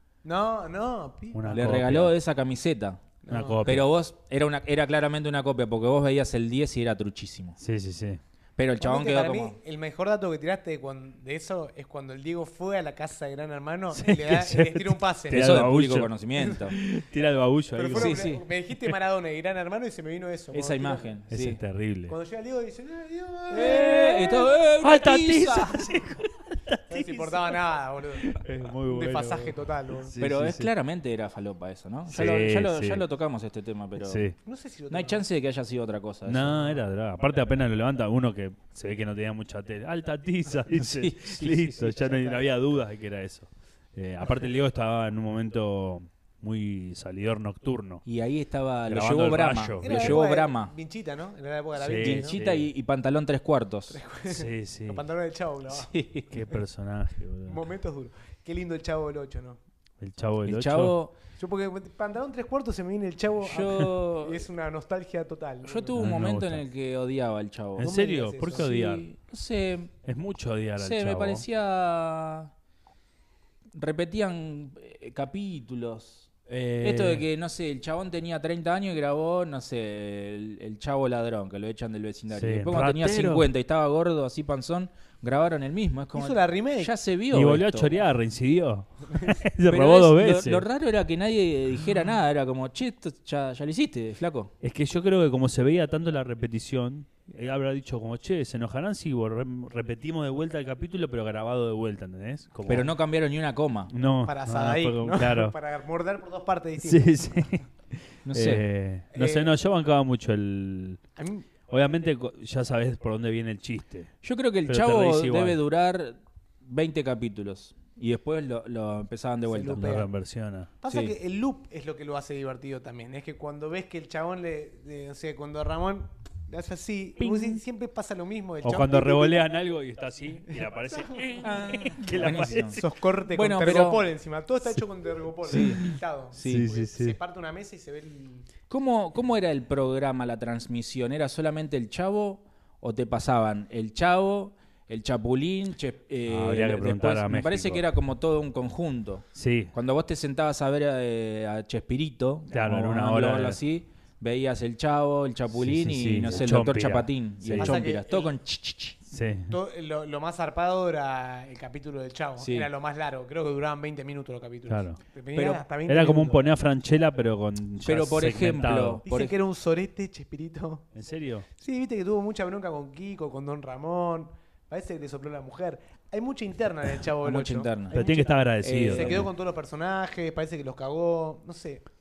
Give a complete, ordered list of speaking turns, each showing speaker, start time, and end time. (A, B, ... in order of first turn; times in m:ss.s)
0:00.2-0:01.8 A
0:01.3-0:02.1 B
0:01.5-0:03.0 C
0:03.2-0:03.7 A
0:03.3-0:03.9 B
0:03.6-0:07.6 C
0:07.6-0:08.2 B
0:08.6-0:09.6 C
0:08.8-0:15.7 A
0:13.9-0:16.1 B
0:15.3-0:16.8 C
0:16.4-0:16.6 A
0:16.7-0:18.3 B
0:17.8-0:21.1 A
0:17.9-0:18.4 C
0:20.5-0:21.6 C
0:21.3-0:22.2 B
0:22.1-0:24.5 A
0:23.5-0:26.0 C
0:23.5-0:27.6 B
0:26.9-0:30.2 A
0:28.2-0:30.7 B
0:30.2-0:34.3 C
0:32.1-0:33.0 B
0:34.0-0:34.4 B
0:34.4-0:35.2 A
0:34.9-0:36.8 C
0:36.2-0:48.0 B
0:40.7-0:42.0 C
0:42.0-0:42.4 A
0:48.1-0:50.7 C
0:48.9-0:50.2 B
0:49.8-0:52.4 A
0:51.8-0:52.7 B
0:52.0-0:54.0 C
0:53.9-0:55.9 A
0:54.3-0:55.0 B
0:55.7-0:56.3 C
0:56.3-0:57.6 B
0:57.5-0:59.6 A
1:00.0-1:01.0 B
1:00.4-1:01.1 C
1:01.4-1:06.1 A
1:03.4-1:04.5 C
1:05.6-1:07.9 C
1:06.0-1:06.6 B
1:07.8-1:09.1 B
1:07.8-1:08.7 A
1:08.5-1:09.9 C
1:10.0-1:11.5 B
1:10.8-1:12.5 C
1:13.7-1:27.9 C
1:16.5-1:17.2 B
1:22.3-1:23.5 B
1:26.2-1:26.9 A
1:27.3-1:30.6 B
1:29.7-1:34.5 C
1:34.6-1:42.9 B
1:42.7-1:43.9 C
1:43.9-1:45.6 B
1:44.2-1:47.2 A
1:46.8-1:51.0 B
1:48.3-1:48.6 C
1:49.1-1:49.5 A
1:51.2-1:51.5 A
1:51.7-1:54.1 B
1:54.2-2:00.0 C
1:54.7-1:55.6 B
1:59.5-2:00.1 A
1:59.7-2:00.7 B
2:00.8-2:09.4 A
2:00.9-2:01.2 C
2:08.6-2:12.9 B
2:10.9-2:11.4 A
2:11.4-2:14.1 C
2:12.2-2:18.5 A
2:15.5-2:15.8 C
2:15.5-2:17.2 B
2:16.4-2:16.7 C
2:18.7-2:39.0 C
2:26.3-2:27.8 B
2:29.4-2:29.7 B
2:32.5-2:33.6 B
2:35.5-2:37.9 B
2:37.6-2:38.3 A
2:39.1-2:39.6 B
2:39.5-2:46.5 A
2:42.4-2:42.7 C
2:44.7-2:45.0 B
2:45.4-2:45.6 C
2:45.9-2:49.0 B
2:47.8-2:49.3 C
2:49.1-2:50.9 A
2:51.0-2:51.5 B
2:51.6-3:01.8 A
2:57.2-2:58.0 C
2:57.9-2:59.3 B
2:58.6-2:59.3 C